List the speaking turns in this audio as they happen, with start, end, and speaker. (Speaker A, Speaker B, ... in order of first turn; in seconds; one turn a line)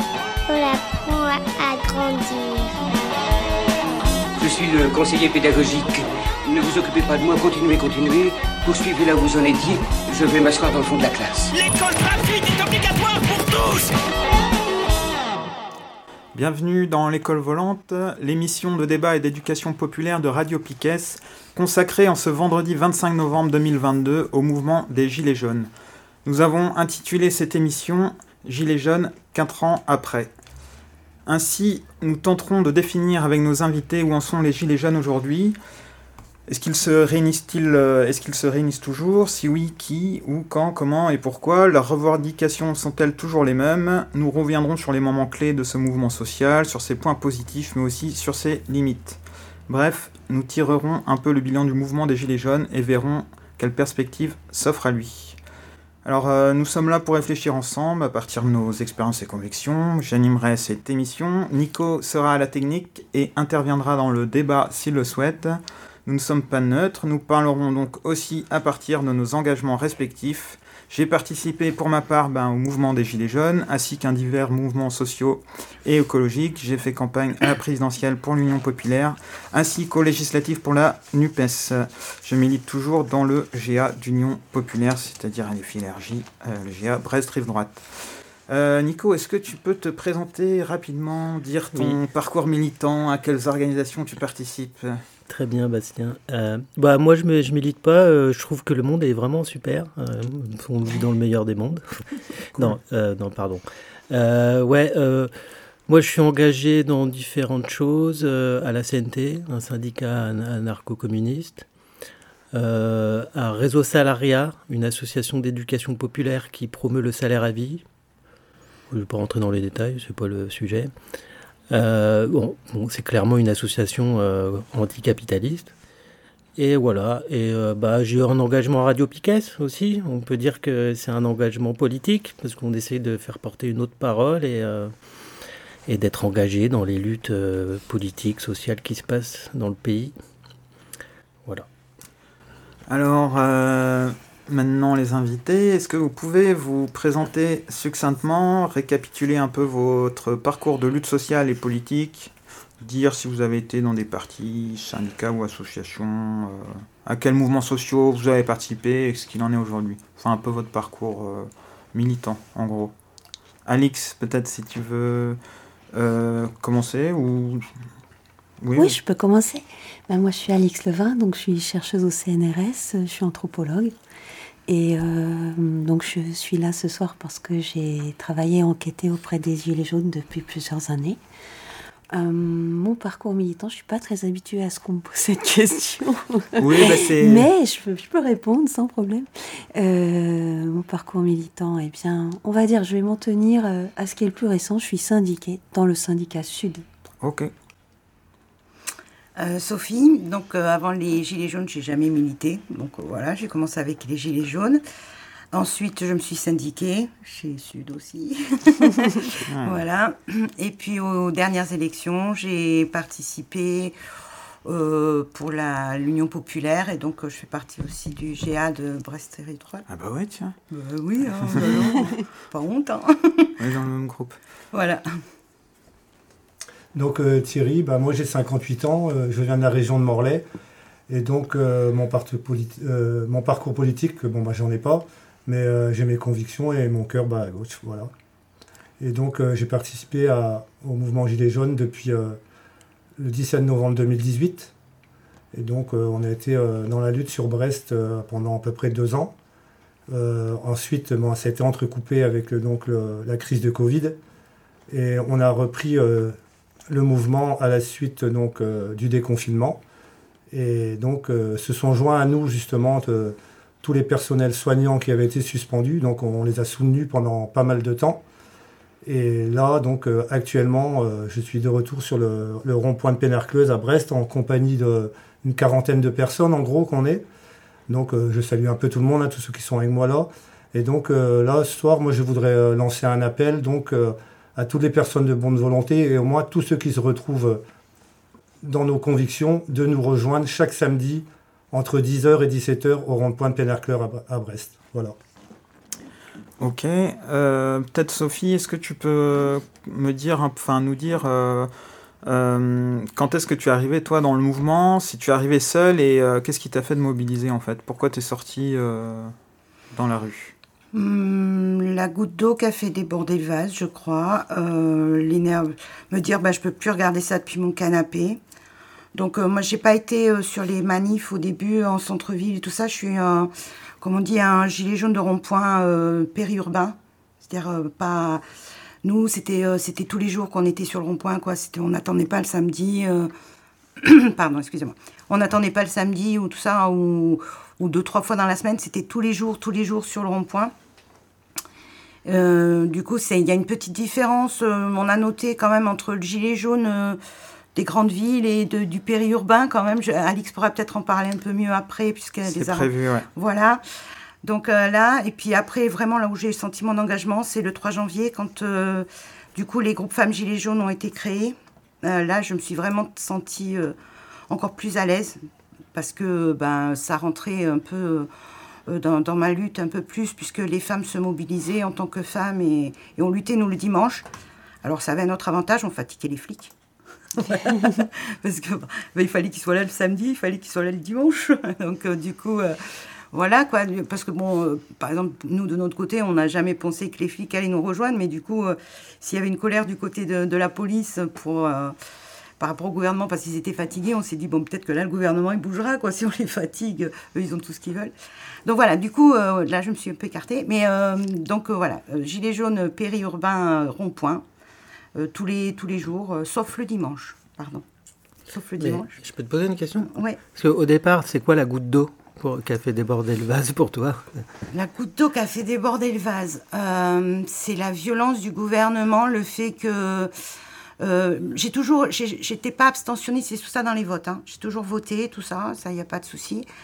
Speaker A: 0.5-3.0
Speaker B: 4.4-11.5
Speaker C: 11.5-14.0
Speaker D: 16.4-25.7
Speaker D: 26.2-30.3
Speaker D: 31.3-35.6
Speaker D: 36.5-55.4
Speaker D: 56.0-95.0
Speaker E: 91.7-92.0
Speaker E: 95.3-105.3
Speaker E: 105.9-111.7
Speaker E: 112.5-117.8
Speaker E: 118.9-120.9
Speaker E: 121.7-125.7
Speaker E: 126.6-134.9
Speaker E: 135.9-140.2
Speaker D: 142.9-162.9
Speaker D: 163.7-165.4
Speaker D: 165.9-167.7
Speaker D: 168.6-168.9
Speaker F: 168.8-173.9
Speaker F: 174.7-181.2
Speaker F: 182.1-196.8
Speaker D: 186.6-187.5
Speaker D: 197.2-197.5
Speaker G: 199.4-204.8
Speaker G: 205.5-213.9
Speaker D: 209.5-209.8
Speaker G: 214.7-219.9
Speaker D: 219.9-220.6
Speaker G: 220.7-223.5
Speaker D: 221.4-222.0
Speaker D: 223.6-224.4
Speaker G: 224.7-225.0
Speaker H: 226.9-230.4
Speaker H: 231.1-238.1
Speaker H: 239.0-242.4
Speaker H: 243.2-244.7
Speaker H: 245.5-249.3
Speaker H: 250.1-254.2
Speaker H: 254.9-256.4
Speaker H: 256.9-259.8
Speaker H: 260.5-268.2
Speaker H: 269.1-277.2
Speaker H: 277.9-287.6
Speaker H: 288.6-295.2
Speaker D: 296.6-301.7
Speaker D: 302.2-309.3
Speaker D: 309.9-310.5
Speaker G: 310.9-318.4
Speaker G: 319.1-328.4
Speaker G: 329.0-333.3
Speaker G: 334.0-340.7
Speaker G: 342.3-347.2
Speaker G: 347.8-353.8
Speaker D: 352.4-353.3
Speaker G: 354.4-363.9
Speaker G: 364.5-365.4
Speaker G: 365.9-368.3
Speaker G: 368.9-374.2
Speaker G: 374.8-376.7
Speaker G: 377.4-382.8
Speaker G: 383.3-391.9
Speaker G: 392.6-398.1
Speaker G: 398.6-404.4
Speaker G: 405.2-407.8
Speaker G: 408.5-409.1
Speaker E: 408.8-414.5
Speaker G: 410.0-410.4
Speaker G: 414.7-420.3
Speaker G: 421.0-426.7